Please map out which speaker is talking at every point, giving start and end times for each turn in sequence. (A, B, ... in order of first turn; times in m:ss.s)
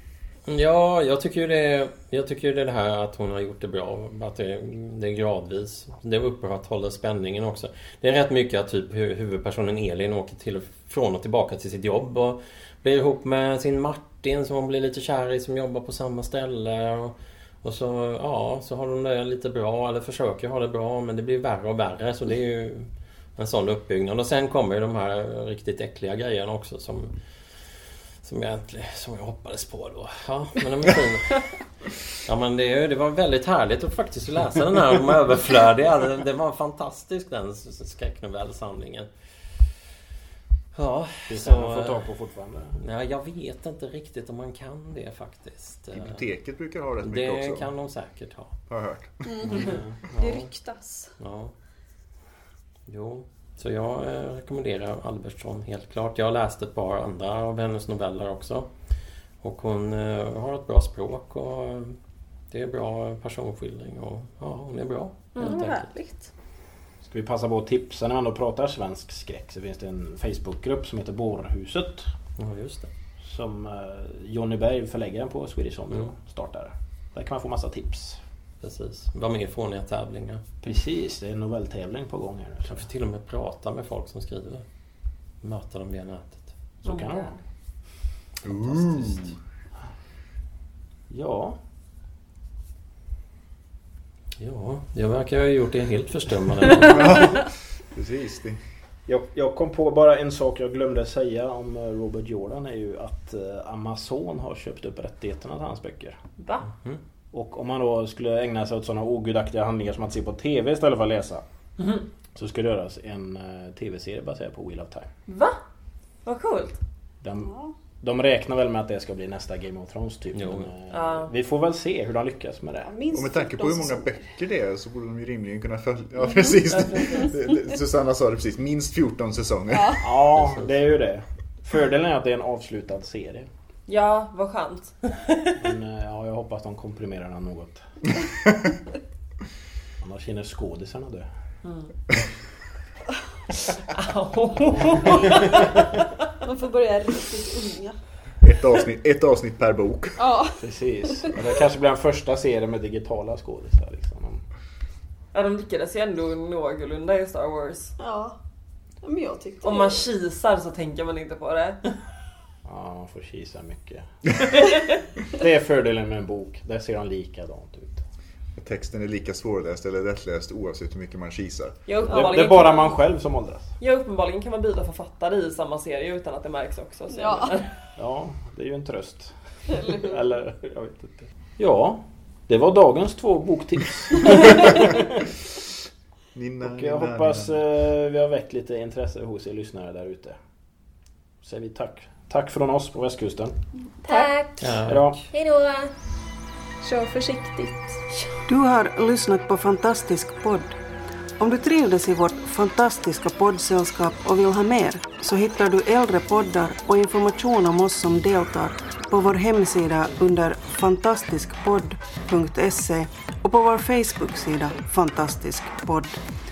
0:00.5-0:27.1 A
0:28.2-0:39.1 A
0:40.7-0:42.1 A
0:41.3-0:42.8 B
0:42.8-0:46.2 A
0:46.0-0:47.7 C
0:47.0-0:48.5 A
0:48.7-0:49.7 C
0:49.3-0:51.1 D
0:49.5-0:50.5 A
0:49.6-0:50.0 B
0:51.2-0:51.5 A
0:52.9-0:58.7 A
0:59.4-1:02.0 A
1:02.5-1:05.9 A
1:05.4-1:05.6 E
1:05.4-1:06.3 D
1:07.0-1:12.1 B
1:12.4-1:12.9 A
1:13.2-1:18.2 B
1:18.6-1:20.4 A
1:20.6-1:22.9 B
1:22.7-1:24.7 A
1:25.4-1:26.5 A
1:26.8-1:27.4 B
1:26.9-1:27.4 E
1:28.4-1:29.4 A
1:28.4-1:29.3 C
1:31.1-1:31.6 B
1:34.4-1:37.3 A
1:36.8-1:38.6 C
1:39.1-1:46.2 B
1:46.4-1:46.7 E
1:46.7-1:47.0 A
1:47.3-1:51.4 B
1:51.8-1:52.0 E
1:52.4-1:55.1 B
1:55.3-1:55.6 E
1:56.2-1:56.8 E
1:57.2-2:03.0 B
2:00.3-2:00.7 A
2:00.9-2:01.3 E
2:02.8-2:04.2 D
2:03.1-2:10.2 C
2:06.7-2:07.3 E
2:09.7-2:10.0 D
2:10.0-2:13.5 B
2:10.4-2:10.7 A
2:13.9-2:15.5 E
2:15.6-2:18.0 B
2:20.0-2:21.3 B
2:21.6-2:21.9 E
2:23.7-2:26.1 E
2:26.4-2:28.0 D
2:28.4-2:30.3 C
2:30.2-2:30.6 D
2:30.6-2:34.4 B
2:35.3-2:38.0 E
2:38.0-2:38.4 D
2:39.0-2:40.0 D
2:39.6-2:42.0 E
2:42.6-2:44.1 B
2:44.6-2:45.0 E
2:45.3-2:48.0 B
2:48.6-2:51.8 C
2:51.9-2:53.0 E
2:52.1-2:53.7 B
2:53.8-2:57.7 E
2:57.1-2:57.5 D
2:58.0-3:05.4 B
3:06.3-3:07.6 C
3:06.6-3:10.4 B
3:11.4-3:13.6 B
3:14.0-3:14.8 E
3:14.1-3:14.4 D
3:14.6-3:15.2 A
3:14.9-3:15.2 B
3:15.3-3:15.9 E
3:16.8-3:17.9 D
3:18.5-3:20.8 F
3:21.4-3:36.2 F